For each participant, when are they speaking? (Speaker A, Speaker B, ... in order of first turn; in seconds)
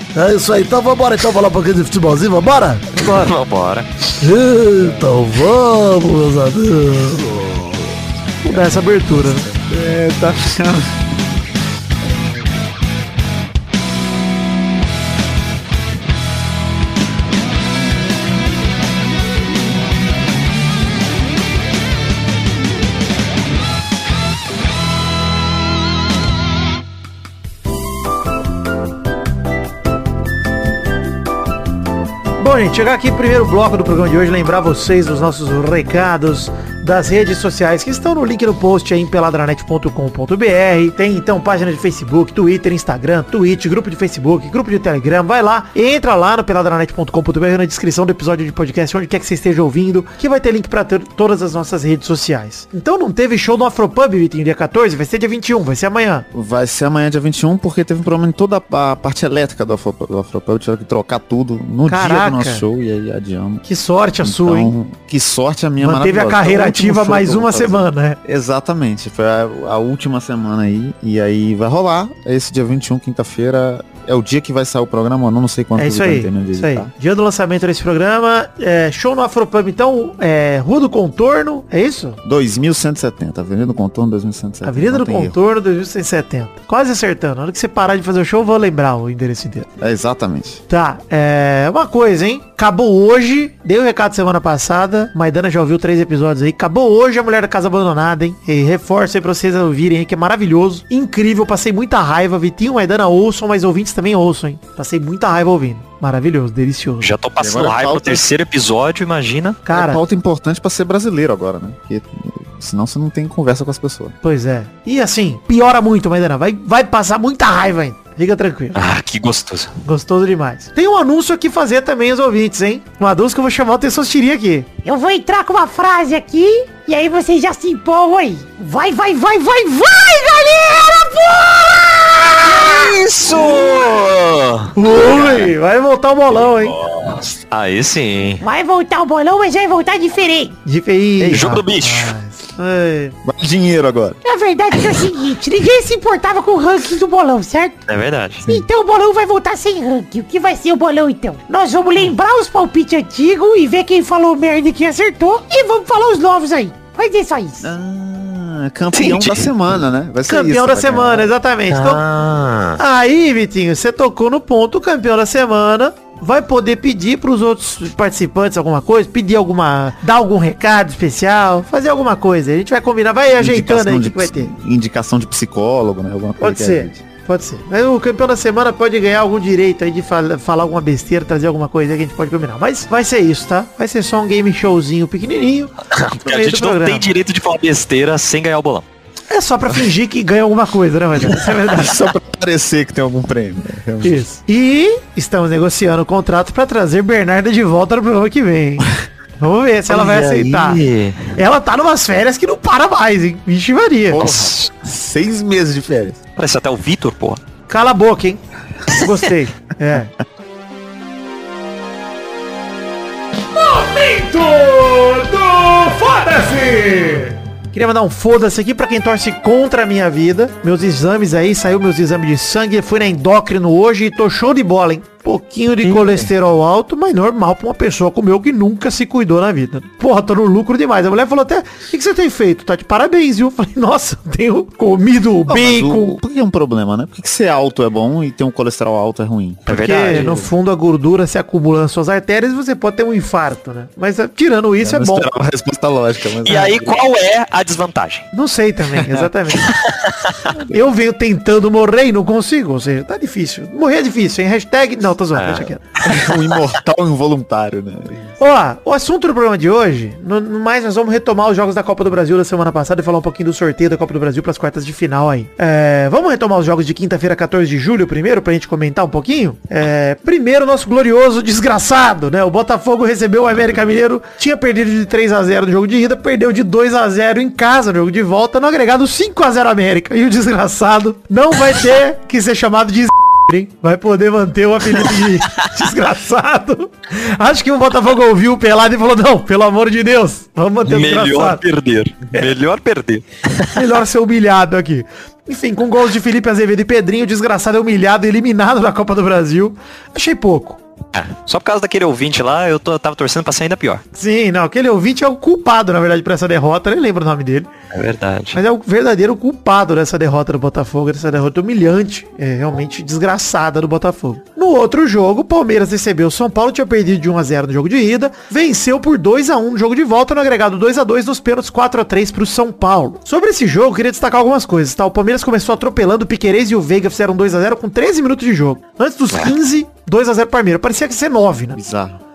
Speaker A: 0.1-2.9, 4.2-7.4
Speaker B: 2.9-3.3, 8.4-9.5, 32.4-56.2, 61.9-62.6, 63.6-64.7, 65.8-68.2, 75.8-82.2, 84.6-89.7, 90.7-107.1, 109.6-110.0, 114.2-118.9, 119.8-124.7, 134.7-136.8, 140.6-143.2, 160.2-162.0, 162.8-174.5, 176.4-187.0, 189.3-192.1, 194.0-204.2, 207.7-210.1, 213.6-236.2, 239.7-245.3, 248.3-249.7, 250.6-255.8, 258.4-291.6, 293.7-300.8, 304.1-307.7, 308.5-331.8
Speaker C: 3.1-3.9, 107.0-109.6, 118.8-119.7, 132.4-135.3, 136.5-138.4, 141.3-142.1, 147.9-148.4, 158.9-159.5, 161.7-162.8, 185.9-188.8, 199.9-201.3, 204.2-204.7, 206.3-207.4, 239.7-240.3, 246.4-248.3, 249.6-250.5, 255.3-255.7, 290.8-293.8, 301.1-304.0, 307.9-308.6
Speaker D: 7.3-7.6, 9.3-10.9, 56.3-63.6, 64.2-76.9, 82.2-85.3, 89.8-90.6, 107.4-108.2, 109.7-114.2, 141.2-141.6, 143.2-144.2, 148.4-148.7, 157.6-161.3, 173.4-177.0, 191.6-194.2, 204.1-206.2, 235.5-240.5, 244.8-247.0, 256.0-258.2, 331.7-332.2
Speaker E: 124.8-133.0, 138.4-140.6, 144.2-147.8, 148.5-157.7